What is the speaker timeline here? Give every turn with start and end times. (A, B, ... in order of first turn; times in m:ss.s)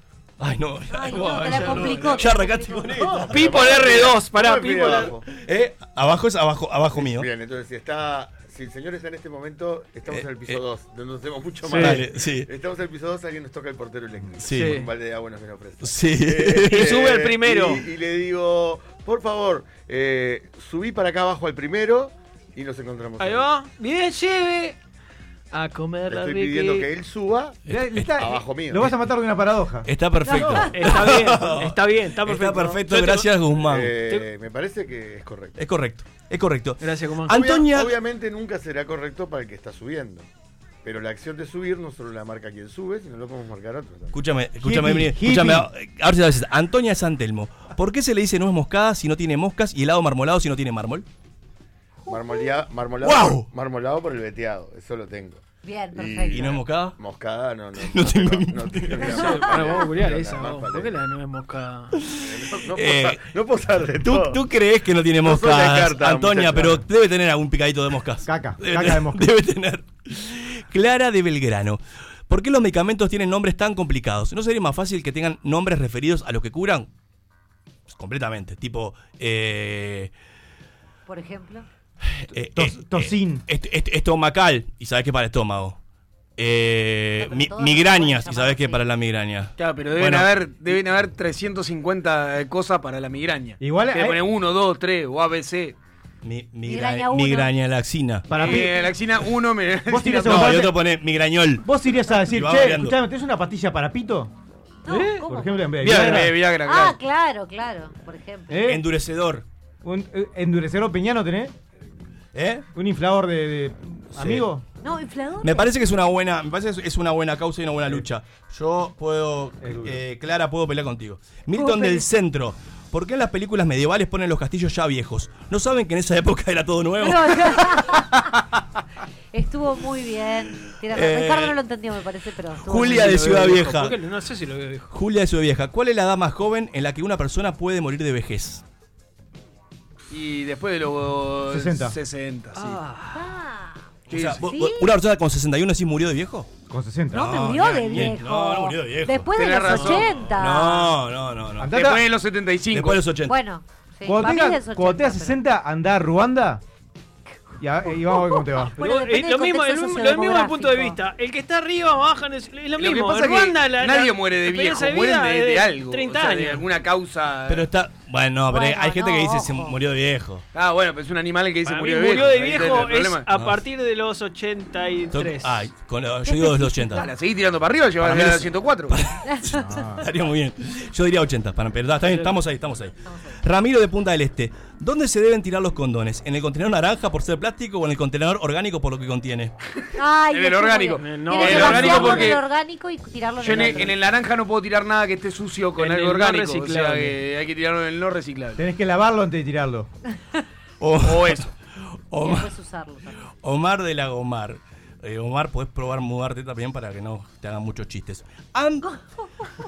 0:00.4-0:03.6 A
0:00.9-0:03.0 B
0:01.4-0:02.2 C
0:03.1-0:05.2 D
0:03.3-0:05.2 C
0:05.3-0:07.3 A
0:07.0-0:23.5 D
0:10.1-0:10.6 A
0:11.7-0:12.5 A
0:14.4-0:14.8 A
0:14.5-0:14.9 C
0:15.8-0:17.0 A
0:16.7-0:17.9 C
0:23.2-0:24.8 C
0:25.5-0:26.9 C
0:26.1-0:27.6 D
0:27.7-0:29.9 E
0:27.7-0:28.3 A
0:28.2-0:28.9 D
0:29.9-0:34.0 A
0:30.4-0:30.6 B
0:30.4-0:33.3 C
0:33.6-0:35.6 D
0:35.6-0:38.0 A
0:36.8-0:37.5 C
0:37.3-0:40.3 D
0:40.8-0:44.2 D
0:44.1-0:51.1 A
0:44.6-0:45.7 E
0:52.0-0:52.5 B
0:52.1-0:55.4 D
0:53.0-0:53.5 A
0:55.6-0:56.6 B
0:55.9-1:01.0 D
0:56.3-0:57.0 A
0:57.8-0:59.2 A
0:59.0-1:02.0 C
0:59.3-0:59.8 B
1:01.9-1:03.3 A
1:02.2-1:04.4 D
1:04.0-1:16.9 A
1:05.2-1:06.8 D
1:08.2-1:09.3 E
1:17.9-1:20.1 A
1:21.1-1:21.7 B
1:22.1-1:25.8 A
1:22.5-1:23.4 E
1:26.4-1:30.3 A
1:27.2-1:28.8 B
1:29.6-1:35.8 F
1:33.6-1:34.2 E
1:36.2-1:38.6 A
1:36.7-1:37.5 B
1:38.3-1:38.8 E
1:38.4-1:40.7 F
1:39.9-1:40.7 E
1:40.2-1:43.0 A
1:41.6-1:44.3 E
1:44.8-1:45.9 B
1:44.9-1:45.2 C
1:45.2-1:46.4 E
1:45.8-1:47.0 F
1:46.6-1:48.6 B
1:48.5-1:48.8 E
1:48.7-1:49.5 A
1:49.8-1:51.5 E
1:52.3-1:52.6 A
1:52.7-1:54.6 E
1:54.2-1:54.5 A
1:54.8-1:55.7 B
1:55.4-2:07.9 A
1:59.6-2:00.0 E
2:01.5-2:02.1 B
2:07.0-2:08.2 B
2:09.3-2:13.5 B
2:10.9-2:11.6 A
2:12.7-2:14.0 A
2:12.8-2:14.9 C
2:14.9-2:18.6 A
2:20.1-2:22.8 F
2:21.5-2:22.0 E
2:22.6-2:23.3 C
2:23.1-2:23.8 B
2:24.1-2:24.4 F
2:24.1-2:26.5 A
2:24.5-2:24.9 B
2:26.7-2:28.1 E
2:27.1-2:30.9 B
2:27.2-2:31.8 A
2:29.4-2:30.1 F
2:31.6-2:32.0 E
2:31.7-2:33.0 F
2:32.7-2:33.4 A
2:33.3-2:35.4 B
2:34.0-2:36.6 E
2:37.6-2:38.8 E
2:38.1-2:41.0 B
2:38.8-2:46.6 C
2:42.8-2:47.7 F
2:47.5-2:50.5 A
2:48.5-2:49.8 B
2:50.5-2:53.2 F
2:51.6-2:55.7 C
2:55.1-2:57.1 A
2:56.3-2:57.0 B
2:56.9-2:59.0 F
2:58.0-3:09.5 A
2:59.5-3:00.1 E
3:02.0-3:02.4 C
3:10.0-3:13.9 B
3:10.3-3:12.4 F
3:11.0-3:12.4 C
3:13.4-3:18.6 F
3:13.5-3:13.8 C
3:15.8-3:17.2 C
3:18.6-3:19.9 E
3:20.8-3:21.5 A
3:21.0-3:21.5 F
3:22.1-3:22.5 A
3:22.2-3:23.3 B
3:23.4-3:28.9 A